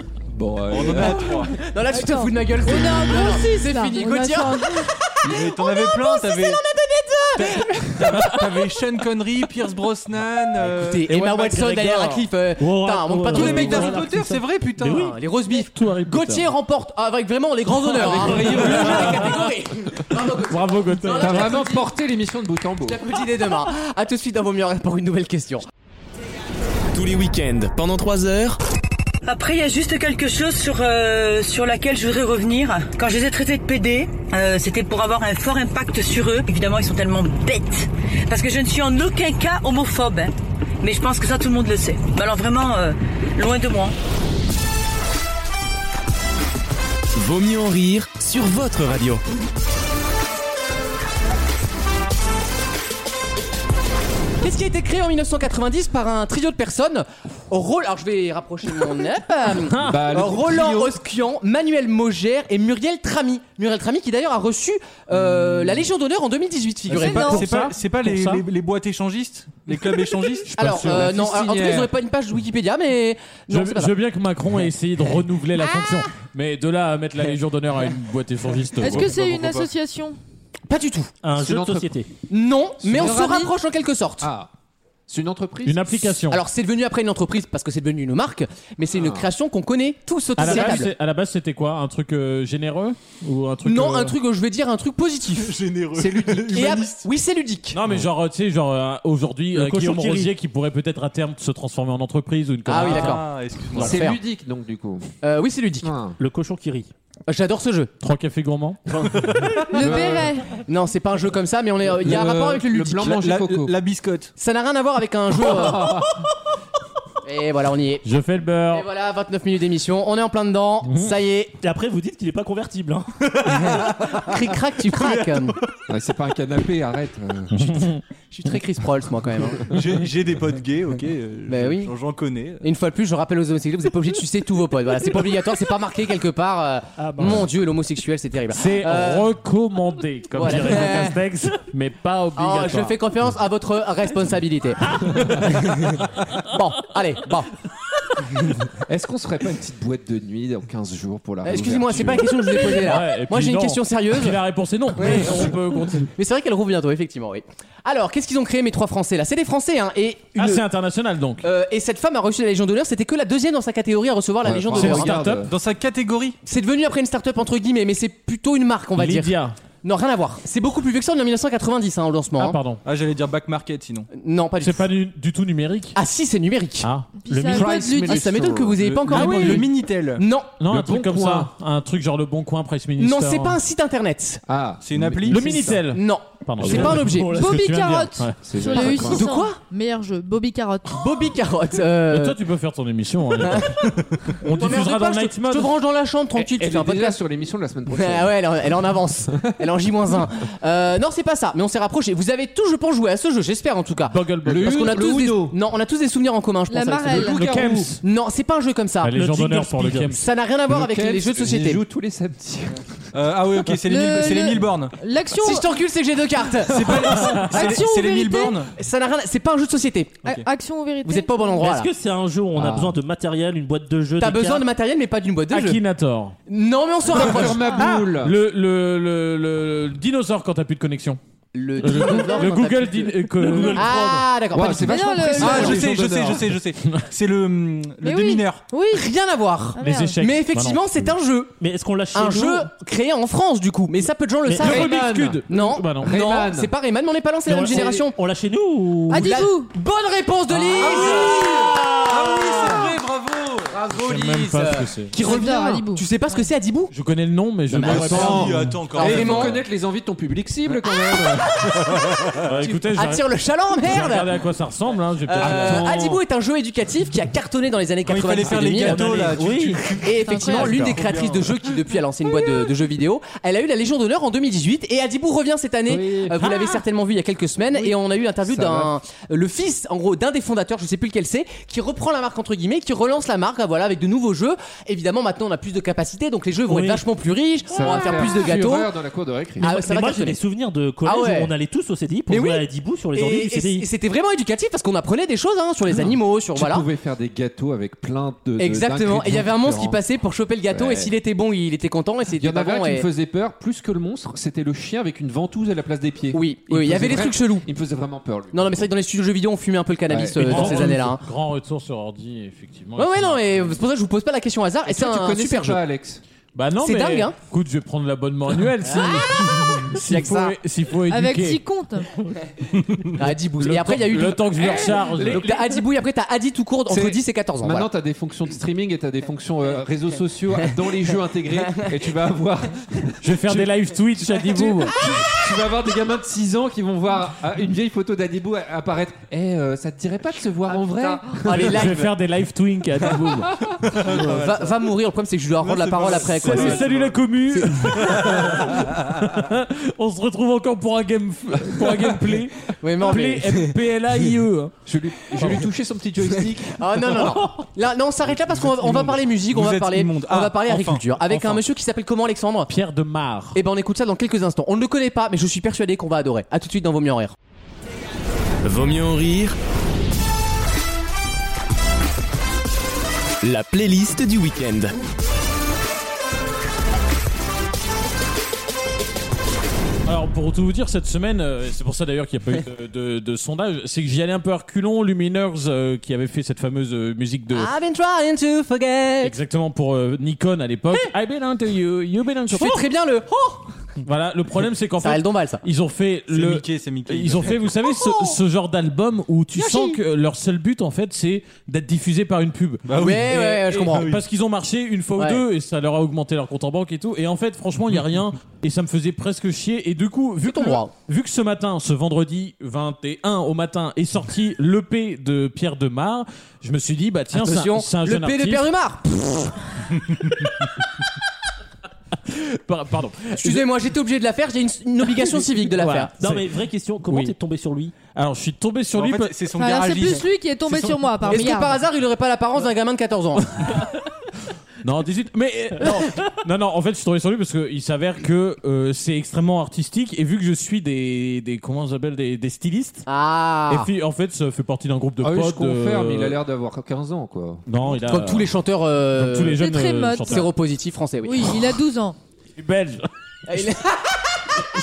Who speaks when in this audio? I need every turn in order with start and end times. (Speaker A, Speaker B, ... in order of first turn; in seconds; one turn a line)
Speaker A: 0.3-1.6
Speaker B: 0.7-1.6
Speaker C: 1.5-8.4
Speaker D: 1.9-4.9
Speaker B: 5.2-6.6
Speaker B: 7.4-11.1
Speaker C: 10.8-14.3
Speaker E: 11.1-15.2
Speaker B: 13.3-15.1
Speaker C: 14.9-21.9
Speaker F: 15.8-16.5
Speaker A: 18.0-19.2
Speaker F: 18.1-19.4
Speaker E: 18.2-18.7
Speaker B: 18.5-18.9
Speaker F: 20.4-21.6
Speaker A: 21.1-23.0
Speaker C: 22.9-25.6
Speaker G: 26.9-28.6
Speaker H: 29.2-44.0
Speaker G: 47.1-49.2
Speaker C: 54.4-68.4
Speaker F: 59.7-60.0
Speaker A: 59.8-60.9
Speaker A: 65.2-65.5
Speaker D: 66.9-67.5
Speaker B: 66.9-70.5
Speaker C: 70.5-73.9
Speaker F: 70.6-71.2
Speaker A: 70.8-71.9
Speaker F: 73.5-79.1
Speaker C: 75.6-76.1
Speaker D: 78.8-80.2
Speaker B: 78.8-79.7
Speaker C: 80.7-81.1
Speaker E: 81.2-82.1
Speaker A: 81.4-81.9
Speaker C: 82.3-84.3
Speaker A: 82.8-83.4
Speaker D: 82.9-83.5
Speaker A: 84.2-84.5
Speaker A: 85.1-85.8
Speaker F: 85.7-86.4
Speaker C: 86.3-90.9
Speaker A: 88.9-89.3
Speaker F: 90.4-94.2
Speaker C: 93.7-95.6
Speaker B: 95.3-97.1
Speaker A: 95.9-96.8
Speaker C: 96.5-97.8
Speaker F: 97.7-103.2
Speaker E: 99.5-100.3
Speaker C: 102.7-104.2
Speaker B: 102.7-104.1
Speaker A: 103.7-105.0
Speaker C: 105.2-105.9
Speaker A: 105.8-106.2
Speaker E: 106.2-106.9
Speaker C: 107.3-107.9
Speaker F: 108.0-109.2
Speaker B: 109.1-110.0
Speaker D: 109.7-110.5
Speaker C: 109.7-113.2
Speaker A: 109.8-110.3
Speaker A: 111.8-113.7
Speaker B: 113.0-114.3
Speaker C: 114.4-116.0
Speaker A: 115.3-116.2
Speaker C: 117.2-118.0
Speaker F: 118.0-118.9
Speaker C: 118.7-121.5
Speaker F: 120.8-121.1
Speaker E: 121.6-123.1
Speaker B: 123.3-125.5
Speaker C: 123.5-125.6
Speaker A: 125.9-127.9
Speaker F: 127.5-128.0
Speaker C: 128.3-129.6
Speaker B: 129.7-132.7
Speaker C: 131.5-131.9
Speaker C: 132.6-139.3
Speaker E: 137.0-137.5
Speaker F: 138.5-143.0
Speaker C: 140.4-141.2
Speaker E: 140.4-141.2
Speaker C: 142.4-145.9
Speaker F: 145.0-145.3
Speaker C: 146.5-147.5
Speaker A: 148.8-152.5
Speaker C: 151.4-154.4
Speaker F: 152.6-156.1
Speaker C: 155.0-155.6
Speaker C: 156.1-160.6
Speaker F: 160.4-161.4
Speaker C: 161.4-165.3
Speaker A: 164.4-165.5
Speaker F: 164.7-165.4
Speaker B: 165.4-166.4
Speaker C: 166.4-172.6
Speaker F: 169.0-169.6
Speaker F: 172.4-172.8
Speaker B: 172.8-174.1
Speaker C: 174.1-174.9
Speaker F: 174.6-176.0
Speaker C: 175.9-176.9
Speaker F: 176.8-177.1
Speaker D: 177.2-178.2
Speaker E: 177.3-178.1
Speaker A: 177.5-179.0
Speaker C: 177.6-180.5
Speaker B: 179.0-180.2
Speaker F: 179.1-179.7
Speaker F: 180.6-183.6
Speaker A: 180.7-181.5
Speaker C: 183.0-184.4
Speaker A: 184.5-185.8
Speaker B: 184.8-185.7
Speaker F: 185.3-188.8
Speaker C: 185.7-187.4
Speaker A: 186.6-187.0
Speaker E: 186.8-187.5
Speaker D: 187.3-191.0
Speaker A: 188.4-189.3
Speaker C: 189.0-189.6
Speaker C: 190.9-192.4
Speaker F: 192.1-195.7
Speaker C: 194.6-197.2
Speaker A: 196.4-198.7
Speaker C: 197.9-209.1
Speaker F: 204.1-204.9
Speaker A: 204.4-205.6
Speaker D: 206.7-207.5
Speaker A: 207.1-207.9
Speaker F: 207.3-208.0
Speaker F: 209.0-210.2
Speaker E: 209.1-210.1
Speaker C: 210.1-211.8
Speaker A: 210.7-213.1
Speaker B: 213.1-215.0
Speaker D: 213.8-215.8
Speaker C: 215.4-217.6
Speaker B: 216.6-218.7
Speaker F: 217.2-217.7
Speaker D: 217.4-218.6
Speaker C: 218.7-220.3
Speaker D: 220.2-221.7
Speaker C: 221.0-221.9
Speaker E: 221.6-224.7
Speaker A: 222.6-223.0
Speaker C: 224.2-225.8
Speaker F: 225.5-226.4
Speaker C: 226.5-227.6
Speaker A: 227.0-228.4
Speaker D: 227.6-227.8
Speaker B: 227.8-228.1
Speaker F: 228.2-231.2
Speaker C: 231.5-235.8
Speaker F: 231.8-233.9
Speaker E: 233.4-234.3
Speaker A: 234.5-236.5
Speaker D: 234.8-235.8
Speaker B: 235.4-238.6
Speaker D: 238.0-239.1
Speaker C: 238.9-241.6
Speaker D: 239.8-240.2
Speaker F: 239.8-240.9
Speaker E: 241.6-242.7
Speaker C: 242.1-244.9
Speaker E: 244.5-244.8
Speaker F: 244.6-246.2
Speaker A: 244.6-246.7
Speaker C: 245.5-248.2
Speaker E: 247.5-249.4
Speaker D: 249.1-249.7
Speaker C: 249.1-252.9
Speaker A: 250.5-251.7
Speaker B: 250.8-253.7
Speaker A: 252.4-253.0
Speaker C: 253.7-256.9
Speaker F: 253.9-255.2
Speaker D: 255.2-256.5
Speaker F: 256.9-259.2
Speaker C: 257.7-259.6
Speaker B: 257.8-259.6
Speaker A: 257.9-258.4
Speaker A: 258.9-262.0
Speaker F: 262.4-263.2
Speaker C: 262.6-264.3
Speaker F: 263.8-265.9
Speaker C: 265.3-269.2
Speaker A: 265.4-266.2
Speaker B: 268.1-271.8
Speaker E: 268.8-269.9
Speaker C: 270.0-288.9
Speaker D: 270.2-270.9
Speaker A: 275.9-276.4
Speaker A: 278.4-278.9
Speaker E: 286.7-287.1
Speaker A: 287.7-289.7
Speaker C: 289.6-290.4
Speaker E: 289.6-293.9
Speaker C: 291.0-291.5
Speaker C: 292.3-296.9
Speaker A: 295.9-300.0
Speaker C: 298.6-303.1
Speaker A: 300.7-301.1
Speaker A: 302.4-308.9
Speaker C: 306.3-307.7
Speaker C: 308.5-311.2
Speaker A: 310.1-311.1
Speaker F: 310.4-313.8
Speaker C: 313.0-315.8
Speaker A: 314.9-316.2
Speaker F: 316.5-321.6
Speaker C: 316.8-317.4
Speaker C: 318.8-320.6
Speaker D: 321.1-322.2
Speaker C: 323.1-327.9
Speaker F: 323.2-325.8
Speaker A: 326.9-333.7
Speaker F: 333.2-335.0
Speaker A: 334.2-341.9
Speaker C: 340.8-342.1
Speaker F: 341.5-343.6
Speaker B: 343.9-344.8
Speaker C: 344.1-346.9
Speaker B: 345.6-347.2
Speaker F: 346.1-354.7
Speaker C: 347.5-348.3
Speaker B: 347.9-348.9
Speaker C: 352.8-353.7
Speaker A: 354.9-357.2
Speaker F: 355.3-355.6
Speaker C: 356.8-362.7
Speaker B: 358.5-361.0
Speaker F: 361.3-361.6
Speaker F: 362.7-363.6
Speaker C: 363.5-367.3
Speaker G: 368.6-369.6
Speaker G: 373.4-375.0
Speaker F: 380.1-387.7
Speaker C: 387.5-389.3
Speaker F: 389.2-392.8
Speaker C: 392.5-393.7
Speaker F: 394.0-418.7
Speaker C: 395.0-395.6
Speaker B: 396.3-397.7
Speaker C: 397.9-398.4
Speaker C: 399.6-400.0
Speaker B: 402.9-404.2
Speaker C: 403.0-404.1
Speaker C: 410.4-410.9
Speaker C: 417.3-420.0
Speaker F: 422.3-423.7
Speaker C: 423.4-426.1
Speaker F: 425.2-426.5
Speaker E: 426.2-427.9
Speaker F: 427.1-427.3
Speaker F: 428.1-429.4
Speaker B: 428.9-431.4
Speaker D: 429.6-431.8
Speaker C: 431.3-433.6
Speaker F: 433.6-433.9
Speaker F: 434.8-443.1
Speaker C: 443.1-443.9
Speaker F: 443.7-446.4
Speaker A: 445.2-447.6
Speaker F: 447.7-448.5
Speaker C: 448.1-449.6
Speaker F: 449.1-450.5
Speaker D: 449.6-450.5
Speaker C: 450.3-451.5
Speaker D: 451.2-452.2
Speaker F: 452.6-453.6
Speaker C: 453.5-454.3